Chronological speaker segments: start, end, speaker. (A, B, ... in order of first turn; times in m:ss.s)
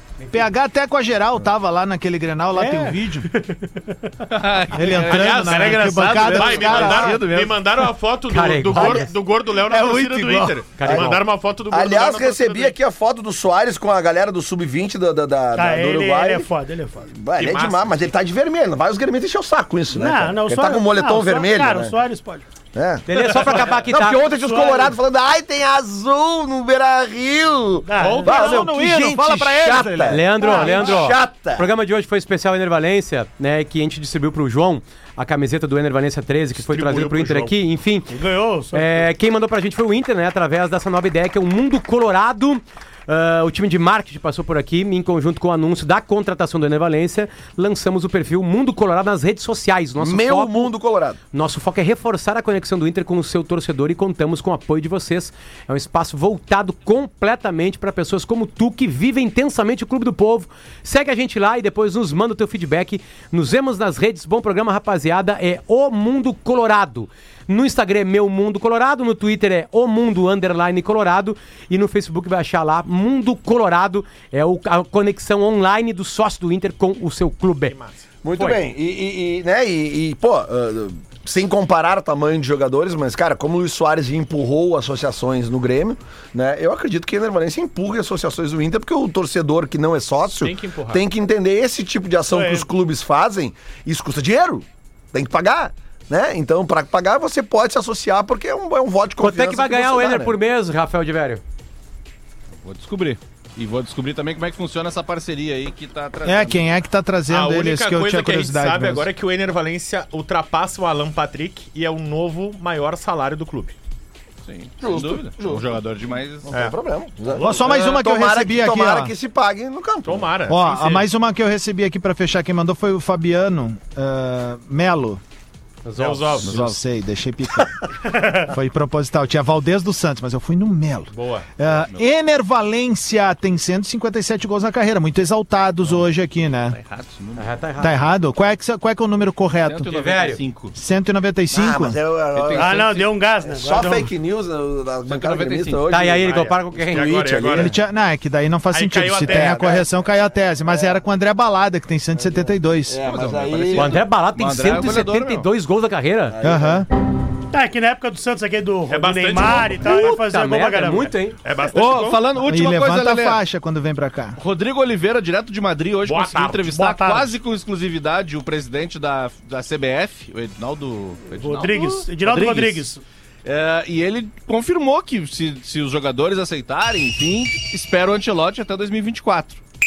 0:00.3-0:03.3 A
0:02.5-0:04.1 B
0:04.3-0:07.6 C
0:04.7-0:07.2 A
0:05.0-0:12.7 D
0:08.3-0:09.1 E
0:08.7-0:09.0 F
0:09.7-0:11.1 F
0:10.8-0:11.2 E
0:11.7-0:16.5 F
0:15.5-0:17.1 B
0:17.1-0:21.9 F
0:17.4-0:18.1 D
0:19.9-0:22.4 B
0:22.7-0:31.7 F
0:23.1-0:24.2 E
0:24.3-0:25.0 B
0:27.8-0:28.7 B
0:28.0-0:28.7 D
0:28.2-0:30.3 A
0:30.1-0:38.1 E
0:30.4-0:31.0 B
0:36.6-0:37.5 D
0:38.1-0:39.1 B
0:38.7-0:50.7 E
0:50.0-0:51.2 F
0:51.3-1:17.8 E
1:17.7-1:18.0 D
1:18.2-1:40.4 F
1:18.3-1:18.6 E
1:30.4-1:31.0 D
1:32.3-1:32.7 B
1:39.2-1:41.4 E
1:42.6-1:46.6 C
1:46.2-1:49.1 A
1:47.3-1:53.7 D
1:54.4-1:56.5 C
1:54.8-1:55.7 F
1:56.4-2:00.3 F
1:57.4-1:59.1 A
2:00.0-2:01.1 D
2:00.5-2:05.2 A
2:05.8-2:06.4 E
2:06.0-2:06.5 D
2:06.4-2:06.8 C
2:06.4-2:07.8 A
2:08.4-2:16.8 A
2:11.1-2:11.5 D
2:11.6-2:12.0 C
2:16.7-2:17.5 C
2:17.4-2:18.0 E
2:17.8-2:20.1 A
2:19.6-2:20.7 C
2:19.9-2:20.4 E
2:20.7-2:22.0 A
2:21.5-2:22.8 F
2:22.3-2:23.1 C
2:22.5-2:24.1 B
2:23.4-2:27.7 F
2:25.1-2:25.8 C
2:25.9-2:27.1 E
2:26.2-2:27.7 D
2:27.5-2:33.0 A
2:28.7-2:29.7 D
2:29.2-2:29.9 F
2:30.7-2:30.9 F
2:32.2-2:34.0 F
2:33.0-2:35.5 C
2:33.7-2:36.4 E
2:36.3-2:36.8 F
2:36.4-2:36.9 A
2:37.5-2:41.1 B
2:38.9-2:40.2 D
2:39.8-2:41.4 E
2:41.4-2:42.2 D
2:41.7-2:43.4 C
2:42.4-2:44.4 A
2:44.4-2:52.9 C
2:46.0-2:46.6 D
2:46.6-2:47.4 B
2:51.3-2:53.0 B
2:53.4-2:59.6 C